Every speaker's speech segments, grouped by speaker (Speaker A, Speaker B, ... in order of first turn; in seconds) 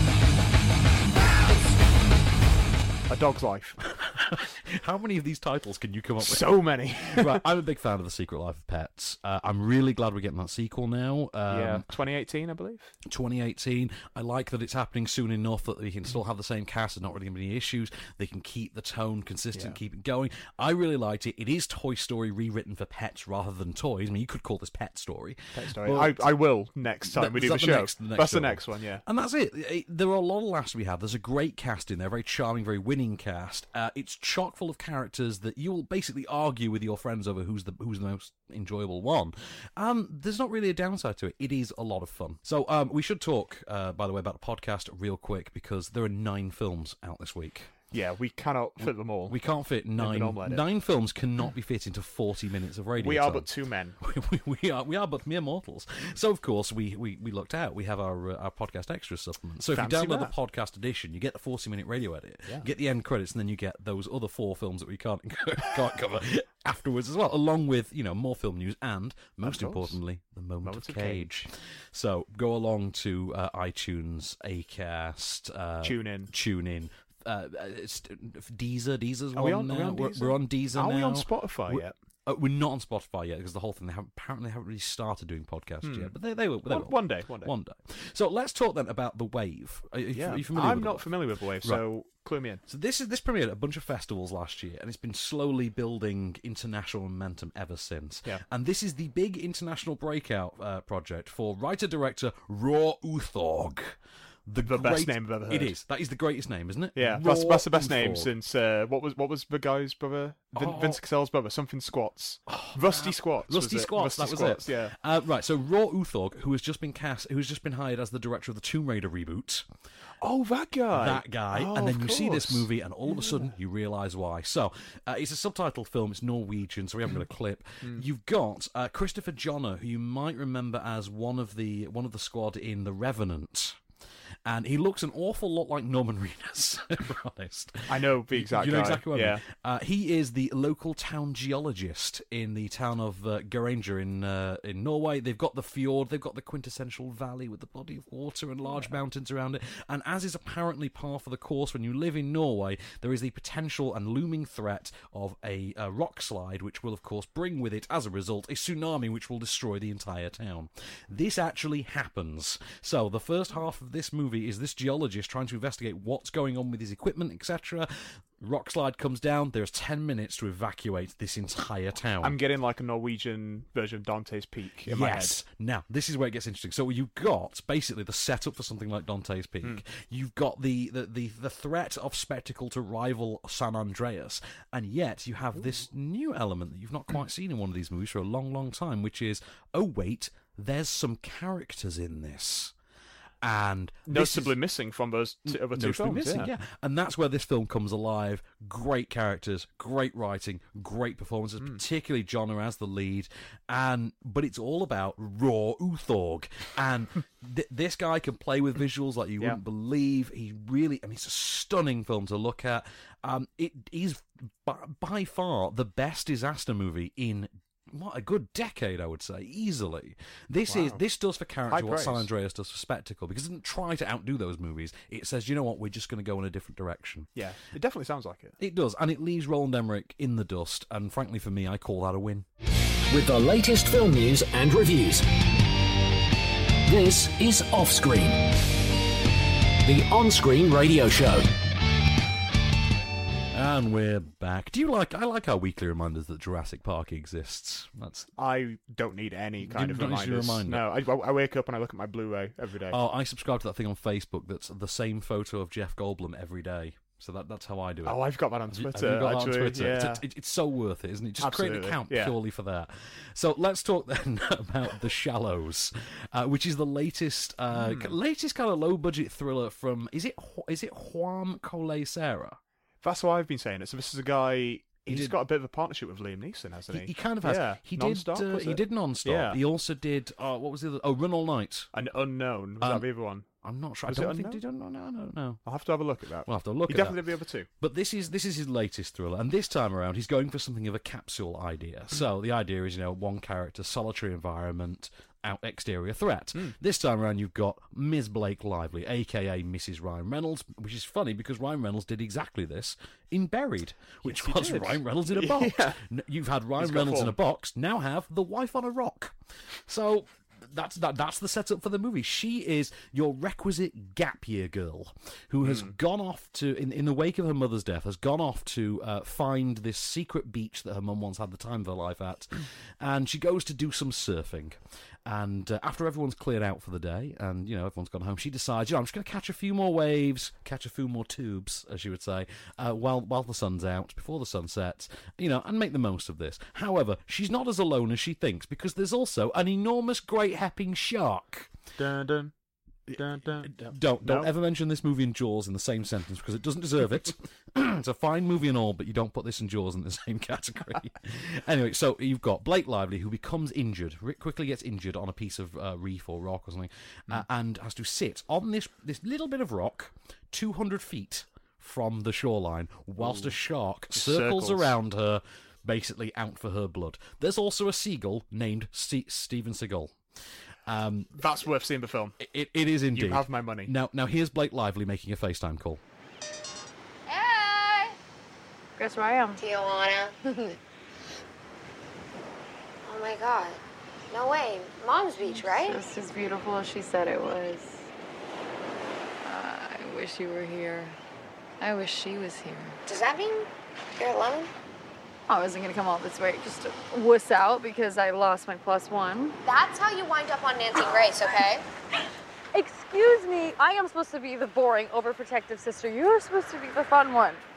Speaker A: 3.1-3.8, 6.2-7.4, 11.5-12.9, 25.6-29.0, 47.9-49.4, 50.0-50.7, 53.0-54.0, 59.7-60.3, 69.4-70.0, 70.6-71.3, 75.8-76.3, 79.3-82.0, 85.8-86.1, 86.7-87.5, 90.1-92.6, 104.7-105.8, 107.0-114.9, 120.2-123.5, 137.9-139.4, 148.7-148.9, 172.2-175.4, 194.1-196.5, 220.7-221.0, 221.7-222.3, 227.3-228.6, 248.4-253.0, 258.1-260.2, 261.4-262.4, 267.7-268.2, 273.0-279.6, 281.9-283.5, 284.1-284.6, 285.6-287.7, 304.2-306.0, 306.8-307.4, 315.6-315.9, 342.0-342.5, 343.1-344.5, 363.2-363.5, 364.1-364.9, 371.4-372.4, 373.1-373.9
Speaker B: 4.0-6.4, 7.0-11.9, 13.1-26.3, 27.1-47.7, 48.8-53.5, 54.0-91.1, 92.7-108.3, 110.5-111.0, 112.5-119.6, 120.9-133.8, 134.5-172.4, 174.9-192.7, 193.4-194.6, 195.5-227.3, 228.6-232.5, 243.5-248.3, 249.6-250.8, 252.9-258.2, 258.7-272.6, 275.1-275.4, 276.9-281.9, 282.8-283.1, 283.6-285.6, 286.5-287.2, 287.8-309.3, 309.9-341.7, 343.6-370.1, 370.9-371.4, 372.4-376.0
Speaker C: 233.1-235.3, 236.8-238.5, 239.8-241.5
Speaker D: 377.3-378.2, 379.6-380.8, 383.1-383.8, 384.3-386.0, 393.1-394.7, 399.6-401.9
Speaker E: 379.0-379.6, 385.4-388.1, 389.4-391.2, 391.8-393.0, 395.5-399.6, 402.7-407.6